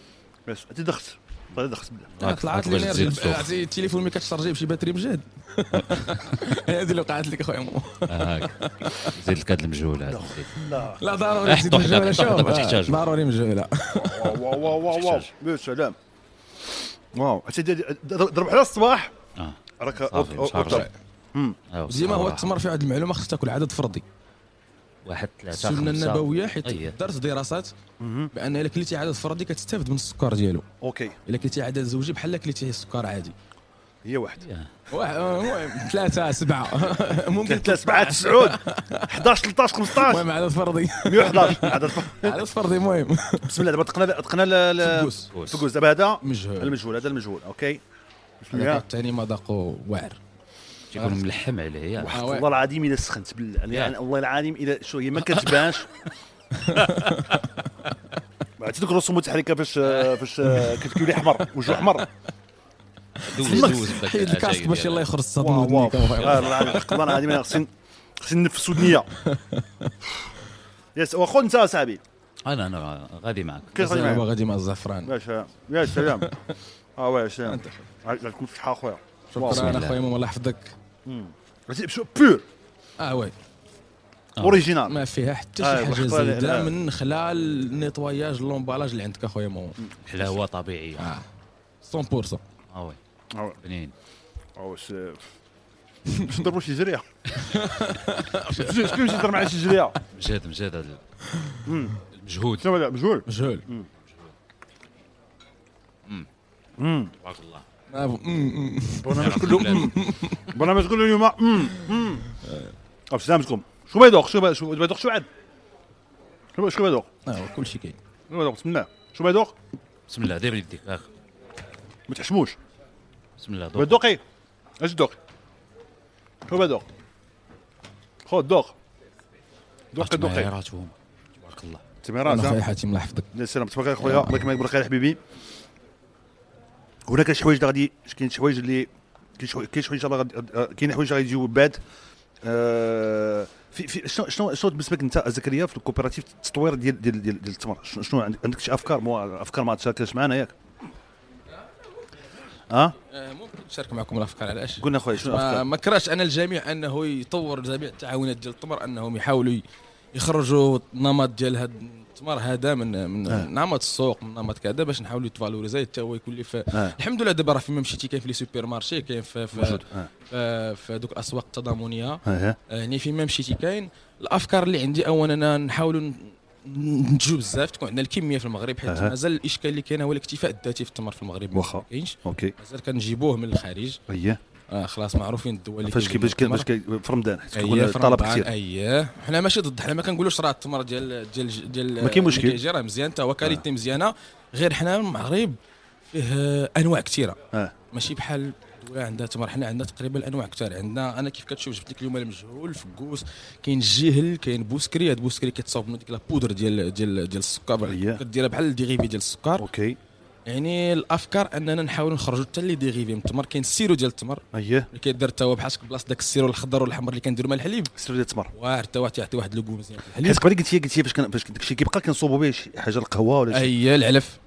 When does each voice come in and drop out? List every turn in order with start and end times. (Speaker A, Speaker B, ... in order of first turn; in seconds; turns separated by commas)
Speaker A: 0.5-2.2, Speaker B: 2.2-3.5, Speaker C: 2.2-9.1, Speaker B: 8.1-8.5, Speaker B: 9.2-10.5, Speaker A: 10.1-11.0, Speaker C: 11.0-14.3, Speaker B: 11.5-13.1, Speaker A: 14.0-16.0, Speaker B: 14.6-15.3, Speaker A: 17.1-19.1, Speaker B: 19.4-20.9, Speaker A: 19.8-21.6, Speaker B: 21.7-22.5, Speaker C: 21.9-24.0, Speaker B: 25.1-27.0, Speaker C: 25.5-27.7, Speaker A: 28.0-28.3, Speaker C: 28.3-30.6, Speaker A: 30.8-31.2, Speaker C: 31.3-33.3, Speaker A: 34.0-34.4, Speaker B: 34.4-34.7, Speaker C: 34.9-39.1, Speaker A: 37.5-38.6, Speaker A: 39.1-40.3, Speaker C: 39.9-43.5, Speaker A: 41.0-42.4, Speaker A: 43.5-47.8, Speaker C: 44.8-45.3, Speaker B: 45.3-45.6, Speaker C: 46.2-46.8, Speaker A: 48.4-48.8, Speaker C: 48.5-50.2, Speaker B: 50.9-52.3, Speaker C: 52.0-52.5, Speaker A: 52.1-55.9, Speaker C: 56.7-57.5, Speaker A: 58.6-62.1, Speaker B: 61.7-62.0, Speaker B: 63.3-65.1, Speaker C: 63.4-67.4, Speaker A: 63.5-63.7, Speaker A: 65.4-69.1, Speaker B: 66.1-66.9, Speaker C: 69.3-69.9, Speaker A: 71.0-72.0, Speaker B: 72.5-74.1, Speaker A: 73.7-74.3, Speaker C: 73.8-75.1, Speaker A: 75.0-76.3, Speaker C: 75.9-76.3, Speaker A: 77.0-79.8, Speaker C: 77.5-77.7, Speaker C: 79.3-80.8, Speaker B: 79.4-80.0, Speaker A: 81.1-82.5, Speaker C: 83.0-83.3, Speaker B: 84.4-84.6, Speaker A: 84.4-85.0, Speaker C: 84.9-89.8, Speaker A: 85.6-86.7, Speaker B: 90.1-91.1, Speaker C: 91.0-91.2, Speaker C: 91.8-92.4, Speaker B: 92.7-93.0, Speaker B: 93.6-93.9, Speaker A: 94.6-95.2, Speaker A: 96.2-97.0, Speaker C: 97.5-99.5, Speaker A: 98.5-100.0, Speaker B: 100.1-101.0, Speaker A: 101.7-102.0, Speaker B: 102.2-102.7, Speaker A: 102.6-103.9, Speaker C: 103.3-103.6, Speaker B: 104.0-104.3, Speaker A: 106.8-107.1, Speaker B: 107.2-107.6, Speaker C: 107.9-110.4, Speaker A: 109.0-110.0, Speaker B: 109.2-109.9, Speaker A: 110.5-112.2, Speaker A: 113.1-115.3, Speaker A: 116.6-117.1, Speaker C: 117.3-118.0, Speaker A: 118.3-119.5, Speaker B: 120.1-121.1, Speaker A: 122.1-122.6, Speaker B: 123.4-124.0, Speaker A: 123.8-124.2, Speaker A: 124.8-125.2, Speaker A: 126.5-126.9, Speaker A: 128.3-128.7, Speaker A: 129.9-130.5, Speaker B: 130.0-131.8, Speaker A: 132.0-132.7, Speaker C: 132.2-133.3, Speaker A: 133.3-135.2, Speaker C: 134.0-134.5, Speaker A: 137.1-141.8, Speaker A: 142.4-150.5, Speaker A: 152.7-152.9, Speaker C: 153.1-159.6, Speaker A: 154.8-155.7, Speaker C: 160.1-184.0, Speaker A: 166.7-167.0, Speaker A: 169.5-170.1, Speaker A: 172.3-172.6, Speaker A: 178.9-179.1, Speaker A: 181.5-182.6, Speaker A: 184.1-184.4, Speaker C: 184.7-186.7, Speaker A: 185.8-188.5, Speaker C: 187.5-195.6, Speaker A: 192.0-192.6, Speaker C: 196.1-197.4, Speaker C: 197.9-209.7, Speaker A: 207.9-208.2, Speaker A: 209.6-210.0, Speaker C: 210.5-217.9, Speaker A: 214.5-214.9, Speaker A: 218.0-218.5, Speaker C: 218.5-220.4, Speaker A: 220.2-223.7, Speaker C: 223.5-224.4